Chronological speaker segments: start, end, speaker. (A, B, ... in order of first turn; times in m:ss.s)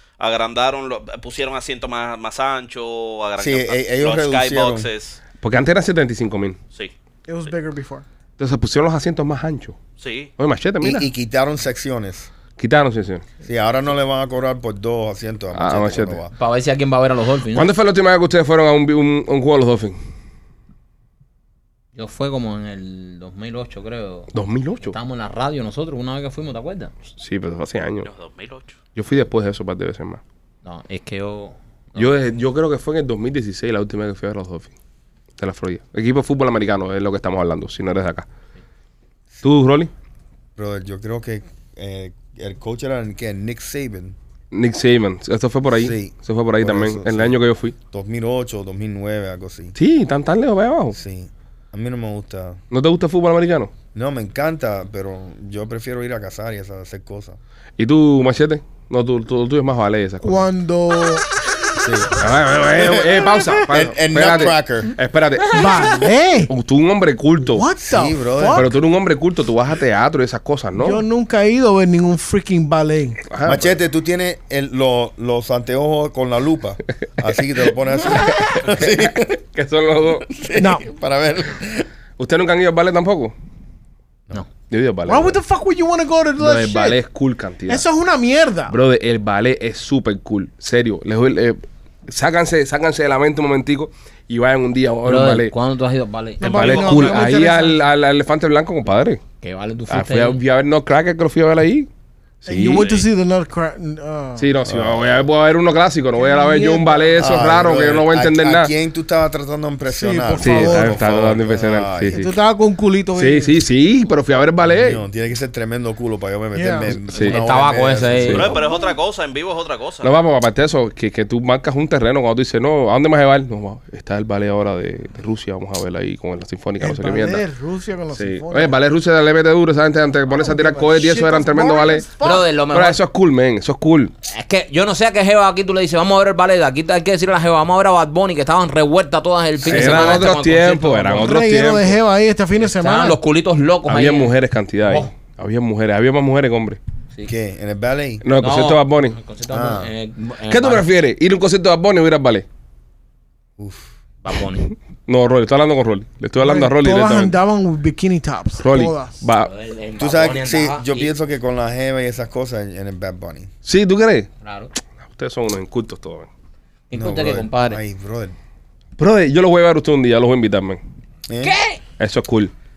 0:00.2-0:05.2 A
0:03.4-0:04.9 B
0:05.4-0:06.6 C
0:07.3-0:08.0 D
0:08.4-0:09.8 C
0:10.0-0:10.3 A
0:10.4-0:11.1 C
0:10.8-0:12.3 B
0:12.6-0:13.2 C
0:13.4-0:16.3 B
0:15.5-0:16.2 C
0:16.4-0:17.7 E
0:17.5-0:20.0 C
0:21.9-0:24.3 E
0:24.3-0:24.9 C
0:24.8-0:26.9 E
0:27.2-0:28.1 C
0:28.0-0:28.8 A
0:29.0-0:30.2 C
0:30.6-0:32.0 E
0:32.0-0:34.7 C
0:35.4-0:38.3 C
0:39.4-0:39.9 C
0:40.6-0:44.2 B
0:44.5-0:47.7 C
0:45.8-0:47.4 B
0:47.9-0:49.7 B
0:49.8-0:51.0 C
0:50.9-0:52.6 B
0:52.7-0:53.7 C
0:53.9-0:57.4 B
0:57.8-1:00.4 C
1:00.2-1:01.2 D
1:01.8-1:04.9 B
1:02.2-1:05.9 C
1:05.5-1:06.5 D
1:06.5-1:07.6 C
1:07.4-1:08.7 D
1:07.8-1:08.7 B
1:08.5-1:11.0 C
1:10.8-1:13.2 D
1:13.3-1:13.7 C
1:13.4-1:19.4 B
1:18.2-1:20.3 C
1:20.3-1:21.9 B
1:20.6-1:20.8 D
1:22.2-1:23.3 C
1:24.7-1:25.4 C
1:25.0-1:27.0 D
1:26.4-1:27.8 C
1:27.7-1:28.7 D
1:28.7-1:35.5 C
1:35.0-1:37.3 E
1:36.4-1:37.8 D
1:36.4-1:39.2 C
1:39.4-1:40.4 E
1:39.9-1:41.9 C
1:42.4-1:42.9 C
1:42.4-1:44.5 D
1:44.4-1:48.7 C
1:44.6-1:45.2 B
1:46.2-1:47.2 D
1:47.2-1:52.3 B
1:49.9-1:51.0 D
1:50.4-1:52.3 C
1:52.1-1:53.5 D
1:53.1-1:55.0 C
1:54.6-1:58.5 B
1:56.5-1:57.0 D
1:56.9-1:57.4 C
1:57.1-1:58.6 E
1:58.3-2:00.1 A
2:00.0-2:07.4 C
2:06.8-2:08.8 D
2:08.1-2:12.0 C
2:10.3-2:12.4 D
2:12.2-2:13.0 E
2:12.7-2:14.1 C
2:14.3-2:21.3 E
2:19.6-2:21.9 C
2:19.7-2:20.1 B
2:21.2-2:23.2 D
2:22.6-2:24.3 E
2:23.9-2:26.8 C
2:27.2-2:28.2 B
2:28.2-2:29.2 C
2:28.4-2:30.8 E
2:29.5-2:29.9 B
2:30.5-2:32.4 C
2:33.6-2:33.9 B
2:34.2-2:34.7 E
2:35.1-2:37.3 C
2:36.4-2:39.2 D
2:38.6-2:39.5 C
2:39.4-2:41.1 E
2:40.0-2:43.5 B
2:43.6-2:44.3 C
2:44.4-2:44.7 E
2:45.0-2:46.3 C
2:46.9-2:47.8 E
2:46.9-2:48.4 B
2:49.0-2:50.8 C
2:51.3-2:51.5 B
2:51.4-2:51.8 E
2:52.0-2:52.5 C